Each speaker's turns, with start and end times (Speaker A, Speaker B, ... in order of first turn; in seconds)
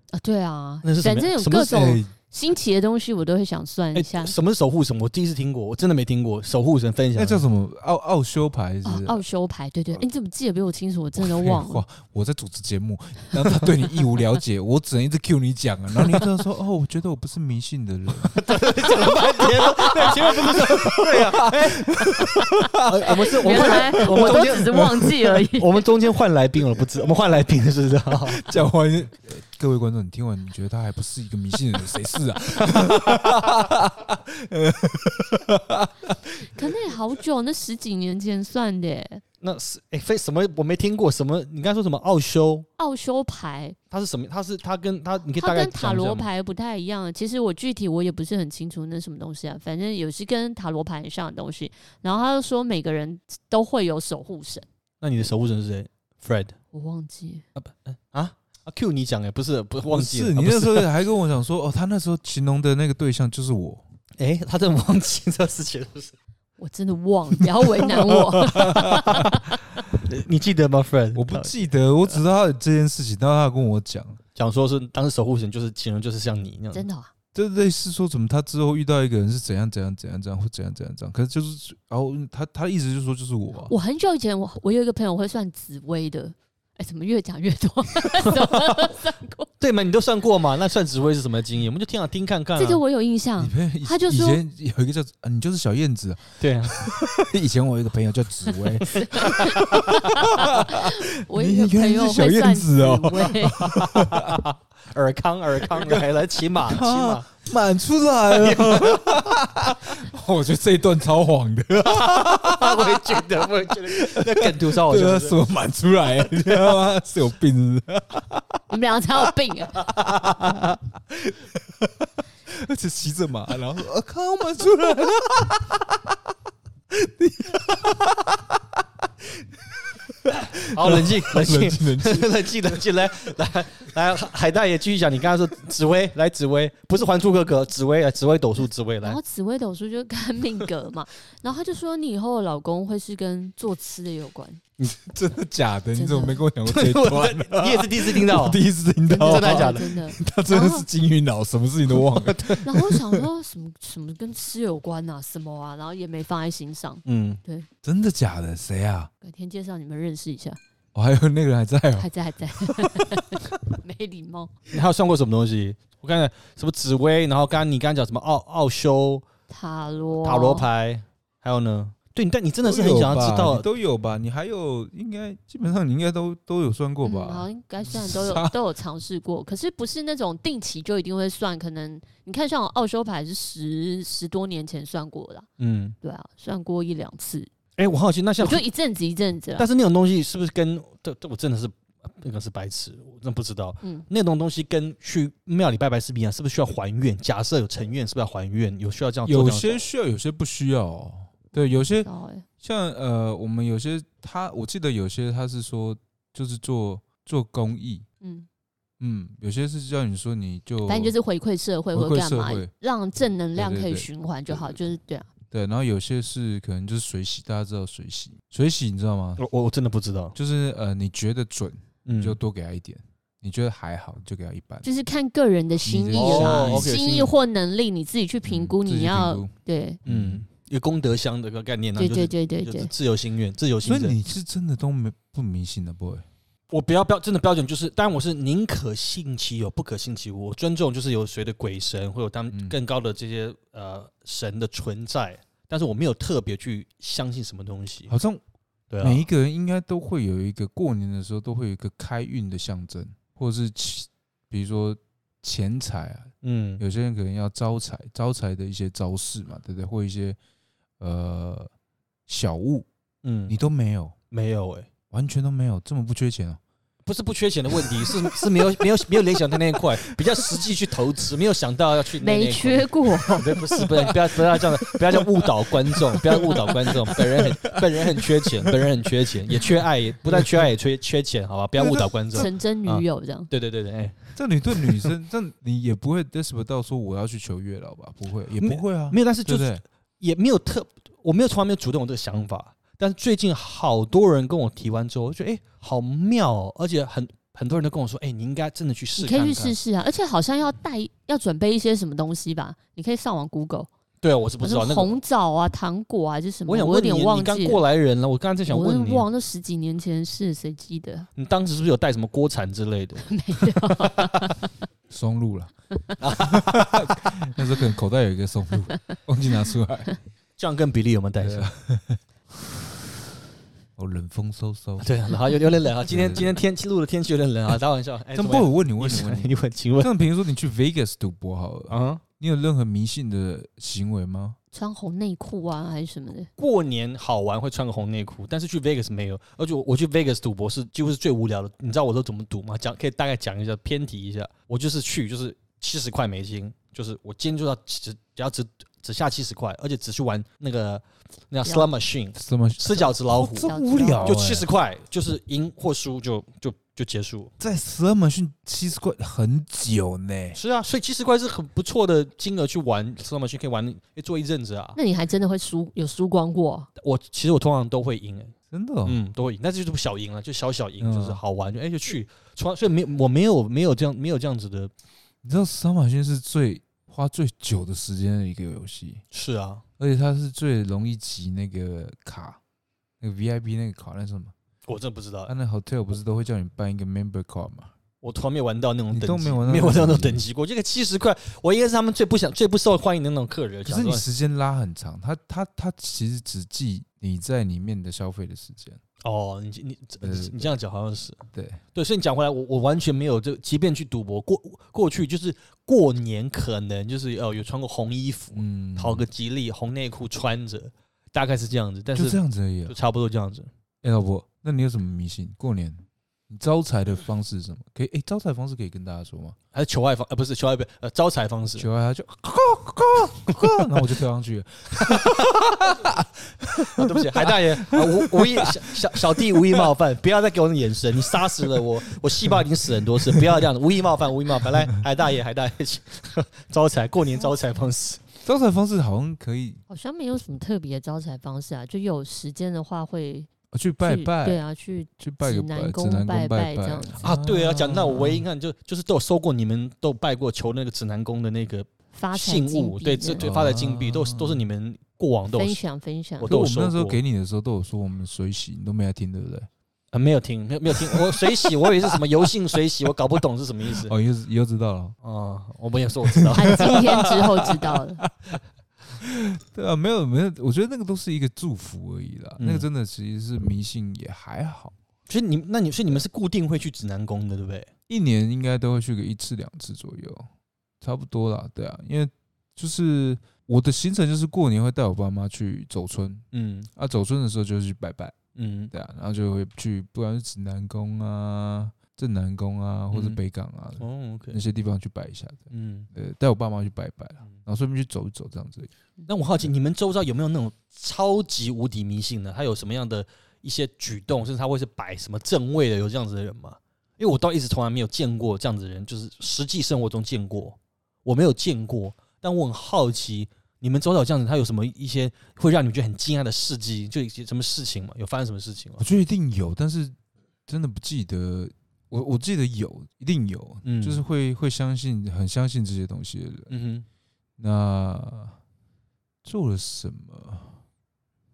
Speaker A: 0.1-4.3, 8.8-11.8, 23.2-25.9, 36.4-39.2, 42.8-43.8, 45.4-54.6, 56.7-57.5, 66.6-69.7, 76.7-77.1, 83.7-89.5, 92.6-94.4, 98.8-103.8, 118.7-119.9, 139.0-144.6, 145.9-146.4, 149.1-150.9, 152.6-157.7, 159.2-160.6, 162.0-164.5, 169.5-170.7, 177.0-185.5, 186.0-187.5, 188.4-189.7, 202.0-202.4, 208.2-208.5, 210.9-215.3, 224.8-230.0, 232.0-232.9, 272.2-273.5, 282.3-283.5, 299.2-303.9, 304.6-307.8, 308.7-311.3, 313.3-314.7, 334.7-336.5, 353.4-354.4, 364.9-366.9, 439.9-443.5, 444.0-447.2, 452.1-453.4, 455.5-456.5, 466.6-468.2
Speaker B: 0.8-2.0, 3.9-7.5, 18.3-21.9, 22.8-24.9, 25.6-28.4, 32.8-33.1, 39.4-42.7, 43.9-46.3, 55.0-56.5, 57.5-60.9, 64.2-66.2, 68.5-69.3, 69.9-72.2, 74.3-76.9, 88.2-88.9, 89.6-92.8, 96.4-96.8, 98.9-100.2, 103.6-107.3, 108.3-109.3, 111.8-115.4, 130.7-139.2, 146.7-148.6, 149.2-149.9, 152.1-152.6, 157.1-157.4, 164.7-169.3, 170.1-173.7, 185.6-186.0, 187.8-188.6, 189.6-199.9, 219.4-220.3, 222.1-222.4, 226.2-227.3, 230.1-234.2, 236.7-248.1, 248.9-249.2, 256.4-256.8, 263.2-263.6, 264.3-264.9, 267.1-285.1, 288.6-299.8, 304.2-305.1, 306.7-309.3, 311.4-313.3, 313.8-314.2, 316.2-317.1, 320.6-321.7, 325.0-330.1, 331.9-332.2, 336.6-353.7, 354.2-357.5, 360.5-365.0, 367.0-374.9, 379.3-379.8, 384.9-385.5, 388.2-394.3, 399.2-401.4, 401.9-413.7, 419.7-421.9, 425.0-425.3, 426.9-438.3, 447.2-455.8, 456.4-457.2, 460.1-464.1, 465.2-467.1, 472.6-472.9, 475.3-477.9, 486.5-486.9, 488.6-488.9, 493.1-493.4, 494.0-494.6, 495.7-496.1, 499.3-519.0, 523.8-524.2, 526.7-527.0
Speaker C: 1.7-2.1, 7.2-9.2, 11.2-25.5, 28.3-36.2, 59.9-63.9, 68.5-69.3, 71.1-74.2, 77.3-83.7, 93.4-104.4, 105.8-118.6, 119.8-126.2, 126.9-132.7, 144.8-153.2, 157.8-159.1, 160.9-163.4, 172.6-178.5, 199.3-202.1, 202.6-208.1, 209.0-211.1, 211.9-212.7, 213.6-214.9, 215.5-219.4, 220.3-224.9, 225.8-226.9, 228.4-229.5, 230.1-230.4, 233.8-236.2, 248.1-248.4, 249.0-260.4, 261.0-261.7, 262.3-262.9, 263.5-264.1, 265.1-266.6, 267.8-268.9, 270.4-270.7, 273.8-278.8, 280.3-280.7, 281.8-282.5, 284.4-289.8, 315.1-315.7, 316.3-320.1, 321.4-322.8, 323.9-325.1, 326.1-326.6, 328.4-334.6, 352.4-354.7, 357.6-360.6, 368.7-369.2, 371.0-371.4, 375.4-379.2, 380.0-382.6, 383.2-384.5, 385.5-387.9, 389.1-390.4, 393.9-399.0, 400.2-400.7, 401.5-401.8, 408.5-409.2, 412.1-412.9, 414.0-419.6, 421.8-429.9, 438.4-439.8, 443.7-444.6, 445.2-448.4, 453.4-454.6, 456.4-459.7, 460.9-462.2, 463.9-465.2, 466.4-468.6, 469.2-474.9, 478.1-480.5, 481.0-488.4, 488.9-498.9, 519.0-520.2, 520.7-526.7, 527.6-528.6, 529.4-530.8